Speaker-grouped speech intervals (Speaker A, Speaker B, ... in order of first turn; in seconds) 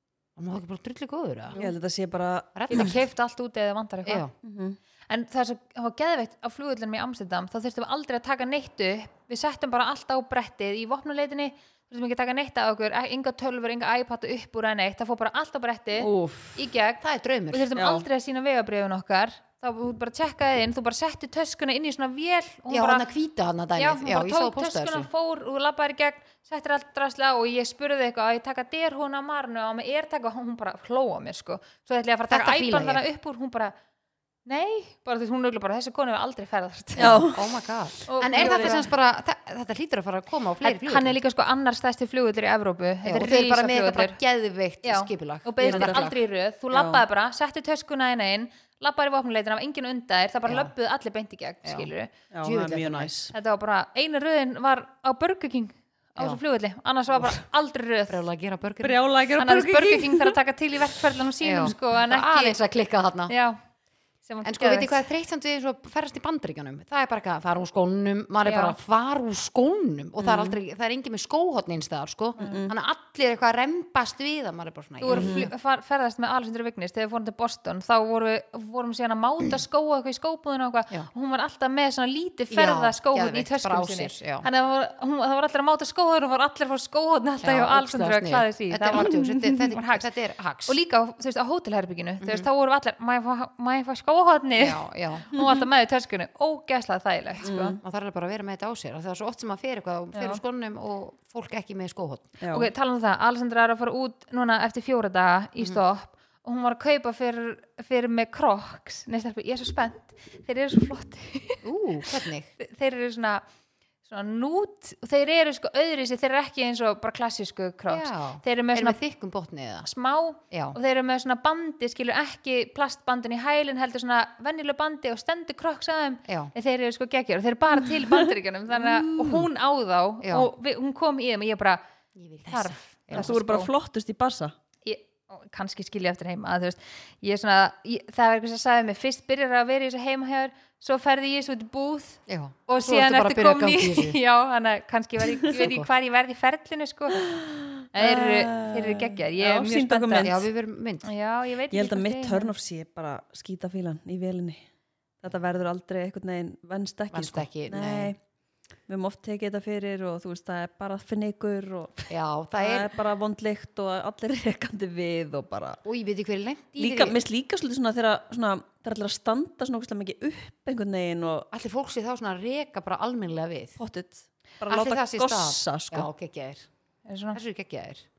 Speaker A: 0.4-1.6, 2.5-3.0, 4.0-4.3, 17.0-17.7, 22.7-25.1, 32.3-33.0, 37.0-41.2, 43.0-46.2, 50.5-50.7, 51.6-51.9, 52.4-53.1, 58.1-59.0, 61.4-63.3, 64.5-75.4, 82.5-84.5, 87.4-90.8, 92.2-92.5, 94.6-95.3, 97.8-102.3, 111.6-112.5, 117.9-119.9, 120.5-120.8, 126.3-126.5, 130.2-130.5, 132.2-133.3, 142.3-144.2, 145.5-145.9, 150.2-151.1, 157.1-158.1, 162.1-162.9, 165.8-167.2, 171.5-173.8, 174.7-176.7, 177.3-178.0
Speaker B: 1.6-2.9, 4.4-4.8, 16.0-16.6, 17.7-18.1, 37.0-37.5, 38.3-38.8, 45.6-46.0, 46.7-47.0, 52.3-53.3, 58.8-60.4, 70.2-70.6, 72.4-72.7, 75.1-75.5, 89.0-89.7, 95.3-95.6, 97.4-97.8, 102.4-102.7, 127.9-128.2, 128.7-129.3, 133.1-134.5, 147.3-150.5, 151.7-154.6, 155.2-158.2, 158.9-165.8, 166.8-171.5, 173.8-176.1
Speaker C: 2.7-4.2, 5.1-23.1, 23.8-33.7, 34.5-37.3, 38.1-38.9, 40.6-44.2, 44.8-52.1, 53.3-58.3, 59.4-62.5, 63.3-63.6, 64.2-65.0, 68.5-68.8, 72.4-72.7, 75.0-90.1, 90.7-97.8, 100.1-100.4, 102.5-111.6, 112.2-113.5, 114.0-119.0, 119.8-131.8, 132.5-133.7, 134.8-147.3, 147.9-150.3, 151.0-152.5, 177.1-177.4